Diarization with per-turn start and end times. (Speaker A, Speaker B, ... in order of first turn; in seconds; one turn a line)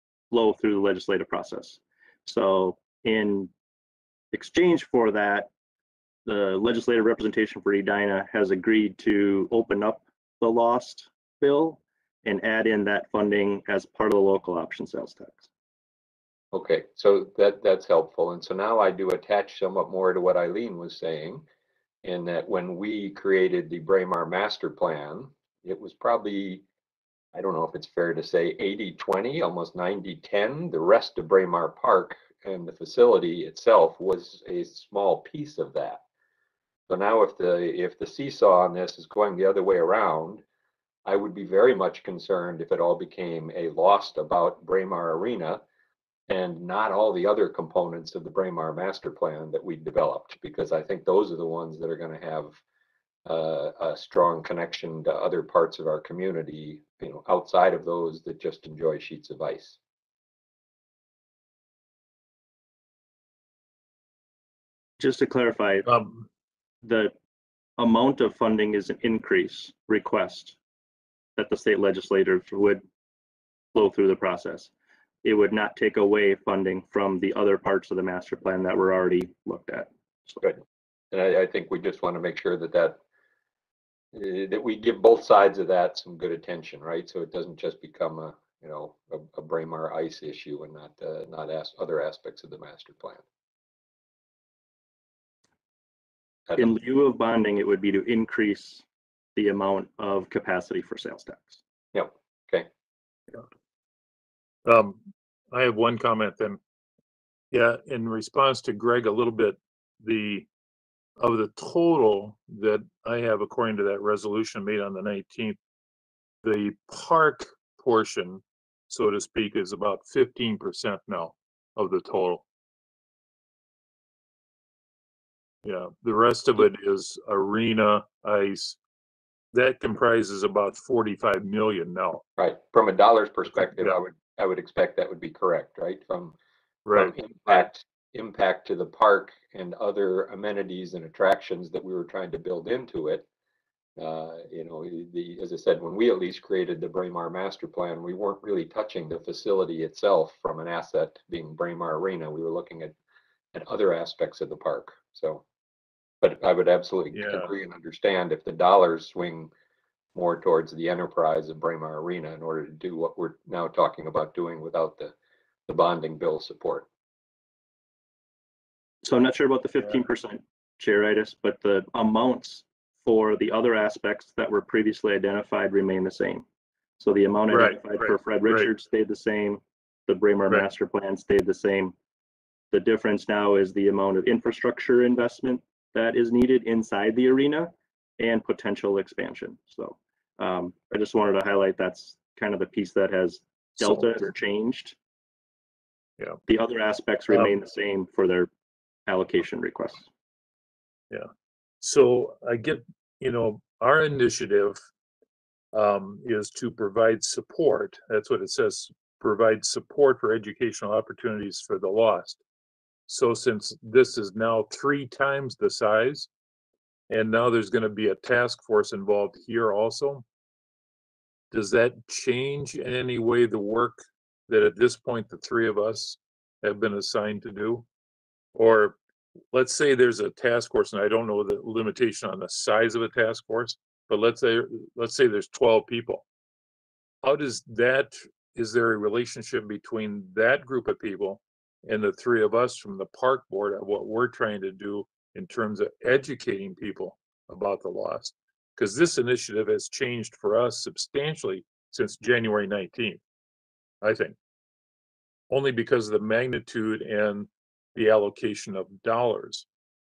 Speaker A: 0.3-3.5
Speaker A: 4.3-5.5
Speaker A: 6.2-15.5
Speaker B: 16.5-21.4
Speaker B: 22.0-26.6
Speaker B: 27.3-36.0
Speaker B: 36.9-40.4
Speaker B: 41.0-45.6
Speaker B: 46.3-52.6
Speaker B: 53.2-59.8
Speaker A: 65.0-65.9
Speaker C: 65.8-66.2
Speaker A: 66.8-67.1
Speaker A: 67.8-70.6
Speaker A: 71.4-72.8
Speaker A: 73.7-74.7
Speaker A: 75.2-80.4
Speaker B: 81.1-83.0
Speaker B: 84.1-93.2
Speaker A: 96.6-101.6
Speaker B: 101.9-102.7
Speaker C: 104.7-105.0
Speaker C: 105.5-106.6
Speaker C: 107.5-110.5
Speaker C: 111.2-115.6
Speaker C: 116.4-122.4
Speaker C: 125.6-128.8
Speaker C: 129.5-132.2
Speaker B: 132.4-136.3
Speaker C: 133.6-134.0
Speaker C: 136.8-137.6
Speaker B: 136.9-143.2
Speaker B: 144.0-152.9
Speaker B: 153.5-155.4
Speaker B: 156.2-159.5
Speaker C: 157.1-157.5
Speaker B: 160.1-165.1
Speaker B: 165.7-166.9
Speaker A: 169.0-176.4
Speaker A: 177.0-181.9
Speaker C: 177.5-178.7
Speaker A: 182.7-194.9
Speaker C: 193.8-194.3
Speaker A: 196.5-198.5
Speaker A: 199.1-200.1
Speaker C: 201.8-204.8
Speaker C: 205.7-212.4
Speaker C: 213.1-216.3
Speaker C: 217.1-220.2
Speaker C: 221.5-227.8
Speaker C: 228.5-229.0
Speaker C: 229.5-236.2
Speaker C: 237.2-253.2
Speaker C: 254.0-254.3
Speaker C: 255.5-259.7